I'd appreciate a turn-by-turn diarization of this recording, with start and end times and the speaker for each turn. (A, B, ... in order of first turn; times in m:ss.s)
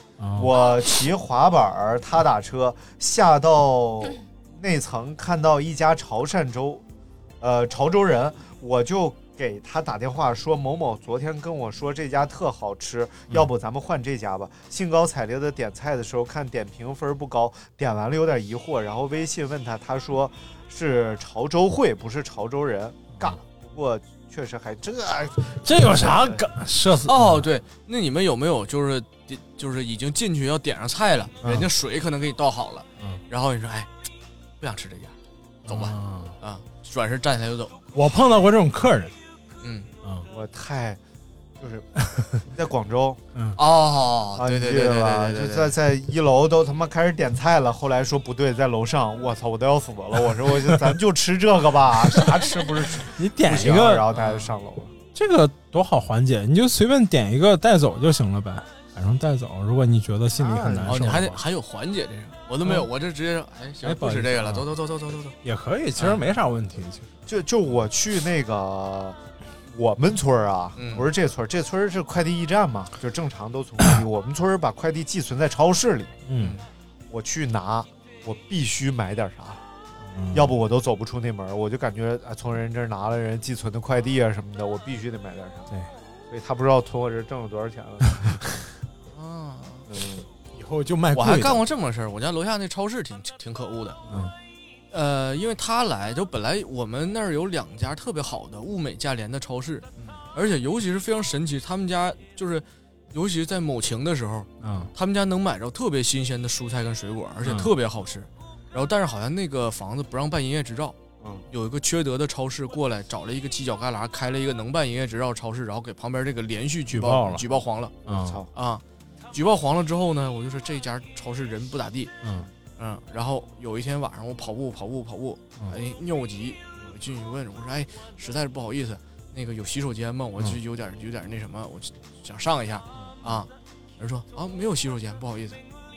0:00.2-0:00.5 A
0:00.4-0:06.8 B
0:07.4-0:26.4 B
0:25.6-0:27.4 A
0:27.1-0:33.9 C
0:34.6-0:35.1 C
0:35.7-0:36.4 A
0:35.7-0:37.8 C
0:38.0-0:39.1 A
0:39.6-0:39.9 C
0:40.3-0:41.0 B
0:41.6-0:41.9 B
0:42.5-0:43.2 B
0:43.6-0:45.7 C
0:44.4-0:55.0 B
0:53.1-0:54.1 A
0:54.1-0:54.5 C
0:55.1-1:01.4 A
1:00.4-1:01.3 B
1:00.9-1:05.4 C
1:03.8-1:04.7 A
1:05.4-1:07.1 A
1:07.3-1:16.2 B
1:10.8-1:11.1 C
1:16.3-1:16.6 A
1:16.4-1:16.6 C
1:17.1-1:19.6 B
1:20.1-1:20.5 A
1:20.3-1:25.7 B
1:26.3-1:28.7 B
1:29.1-1:29.9 C
1:29.9-1:30.3 B
1:30.5-1:31.6 A
1:31.1-1:34.0 C
1:34.9-1:51.0 C
1:44.6-1:44.9 A
1:47.4-1:47.7 A
1:51.5-1:58.0 C
1:56.9-1:57.4 A
1:58.1-1:58.4 A
1:58.1-1:58.5 B
1:58.5-1:58.8 C
1:59.3-2:02.1 C
2:02.2-2:02.5 A
2:02.8-2:15.6 C